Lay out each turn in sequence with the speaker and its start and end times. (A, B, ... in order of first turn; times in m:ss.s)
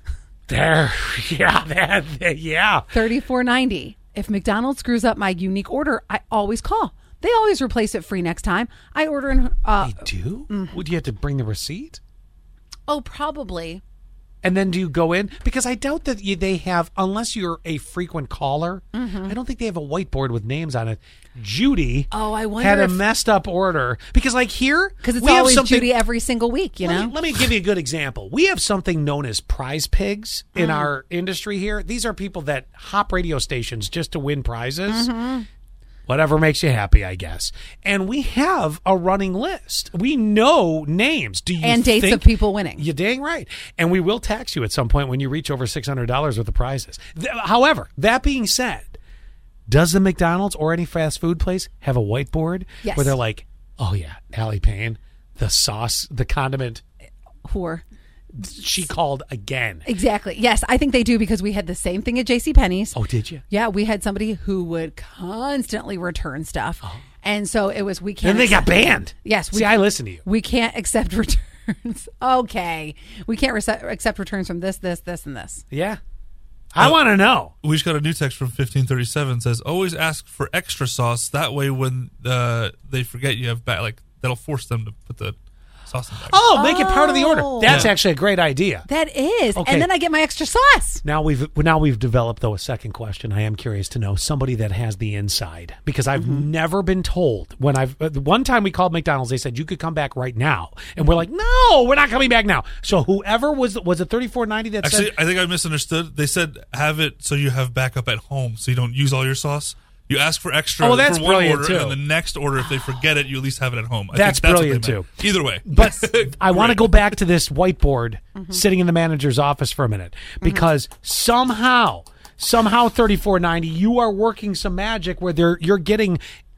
0:00.5-0:02.9 A
0:02.9-0:10.8 B
0:09.8-0:12.0 A
0:12.9-0:13.8 B
0:14.4-0:25.9 A
0:18.9-0:19.3 B
0:22.1-0:23.0 B
0:25.0-0:27.1 B
0:26.8-0:35.1 A
0:30.6-0:30.9 B
0:34.9-0:35.4 B
0:36.1-0:49.0 A
0:41.6-0:42.8 B
0:49.7-0:56.8 A
0:52.8-0:53.2 B
0:57.4-0:57.8 B
0:58.3-0:59.9 A
0:59.8-1:03.0 B
1:02.9-1:03.4 A
1:03.5-1:15.6 B
1:08.2-1:10.2 A
1:15.7-1:16.0 A
1:16.7-1:17.5 A
1:17.6-1:26.4 C
1:26.3-1:28.9 A
1:26.5-1:27.9 B
1:27.6-1:27.9 C
1:28.9-1:31.0 B
1:29.5-1:29.9 A
1:31.0-1:45.2 A
1:36.1-1:36.4 B
1:44.8-1:57.1 C
1:50.8-1:52.0 A
1:54.1-2:06.2 A